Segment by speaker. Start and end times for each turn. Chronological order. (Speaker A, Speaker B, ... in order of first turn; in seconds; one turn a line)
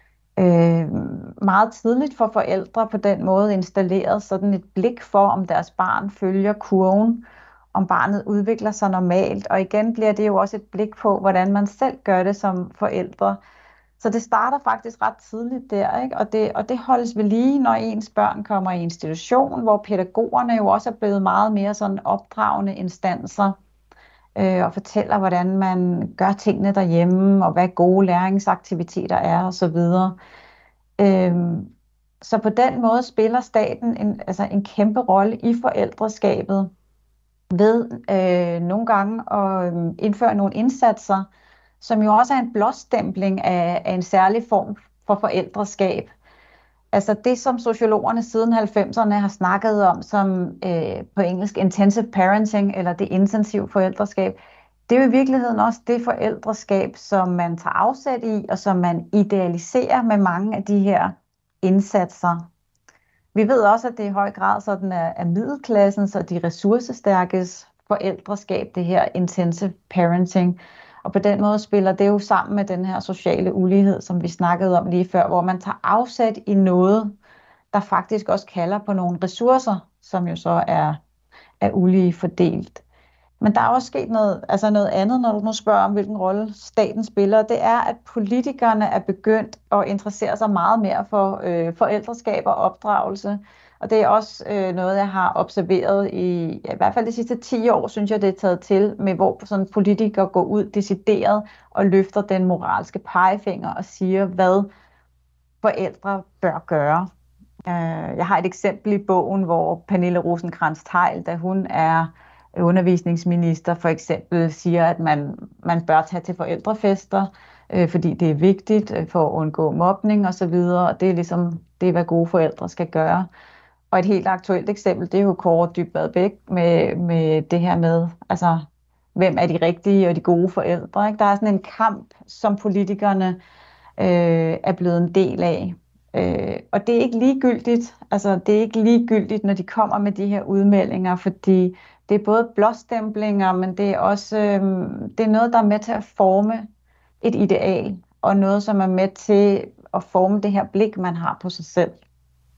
Speaker A: 0.4-13.4
Speaker A: 14.0-23.6
Speaker A: 24.4-30.2
Speaker A: 31.0-36.7
Speaker A: 37.5-41.3
Speaker A: 41.8-46.1
Speaker A: 46.9-54.4
Speaker A: 54.9-62.5
Speaker A: 63.4-77.1
Speaker A: 77.7-81.0
Speaker A: 81.6-82.8
Speaker A: 83.4-104.7
Speaker A: 105.6-107.1
Speaker A: 107.7-123.3
Speaker A: 123.9-133.4
Speaker A: 134.0-146.7
Speaker A: 147.2-152.0